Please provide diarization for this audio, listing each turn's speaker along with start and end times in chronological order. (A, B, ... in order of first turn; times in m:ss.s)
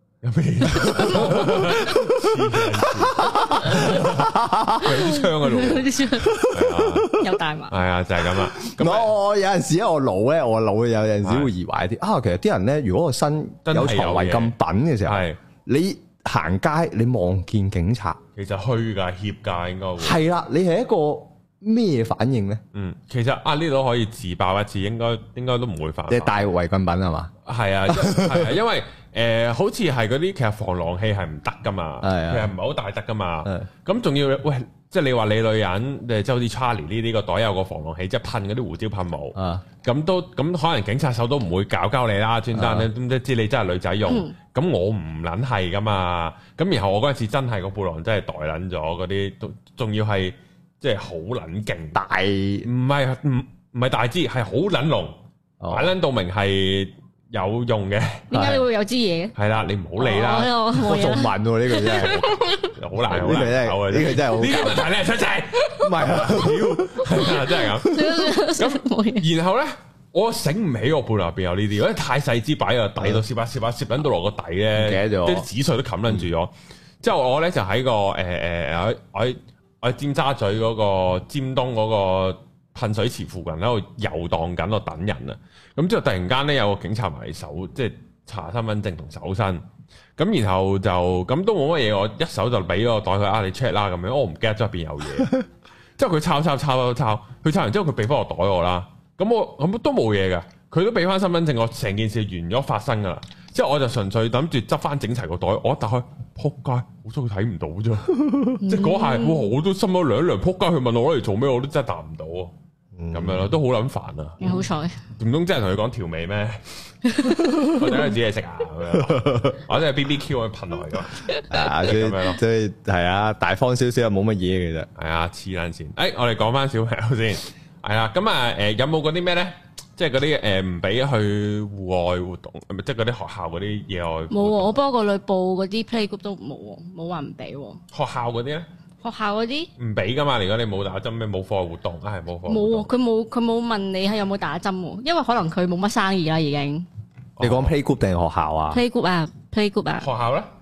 0:00.2-0:07.1 A
0:00.6-0:05.0 B
0:04.9-0:06.4 C
0:06.2-0:07.4 B
0:07.1-0:07.8 C
0:07.7-0:09.1 A
0:08.6-0:18.2 B
0:11.2-0:11.5 A
0:13.6-0:15.4 A
0:18.4-0:20.2 A
0:20.0-0:22.6 B
0:22.7-0:26.4 A
0:26.1-0:27.3 B
0:27.4-0:52.0 A
0:27.9-0:28.5 B
0:32.0-0:32.5 B
0:39.4-0:39.6 B
0:42.5-0:42.9 B
0:44.1-0:44.3 C
0:51.9-0:52.7 B
0:52.6-0:55.1 A
0:55.6-0:55.9 B
0:55.7-0:58.3 A
0:58.3-0:59.4 C
0:58.3-0:58.6 B
0:59.3-1:00.6 A
1:00.0-1:02.7 C
1:00.7-1:02.3 B
1:02.0-1:29.6 A
1:03.0-1:04.9 B
1:05.8-1:08.2 B
1:07.3-1:09.3 C
1:13.0-1:13.2 B
1:14.8-1:15.5 B
1:30.2-1:35.4 A
1:36.0-1:52.5 A
1:48.6-1:49.5 C
1:53.0-1:53.5 B
1:53.1-1:54.5 A
1:54.4-1:55.0 C
1:55.2-1:56.7 A
1:57.1-1:57.7 C
1:57.3-2:02.4 A
1:59.0-1:59.6 B
2:01.5-2:04.9 B
2:05.0-2:14.8 A
2:14.3-2:17.8 C
2:17.9-2:18.7 A
2:19.0-2:19.7 C
2:19.8-2:22.9 A
2:22.5-2:26.8 C
2:27.4-2:27.8 A
2:27.4-2:28.8 B
2:28.7-2:30.1 C
2:30.0-2:30.5 A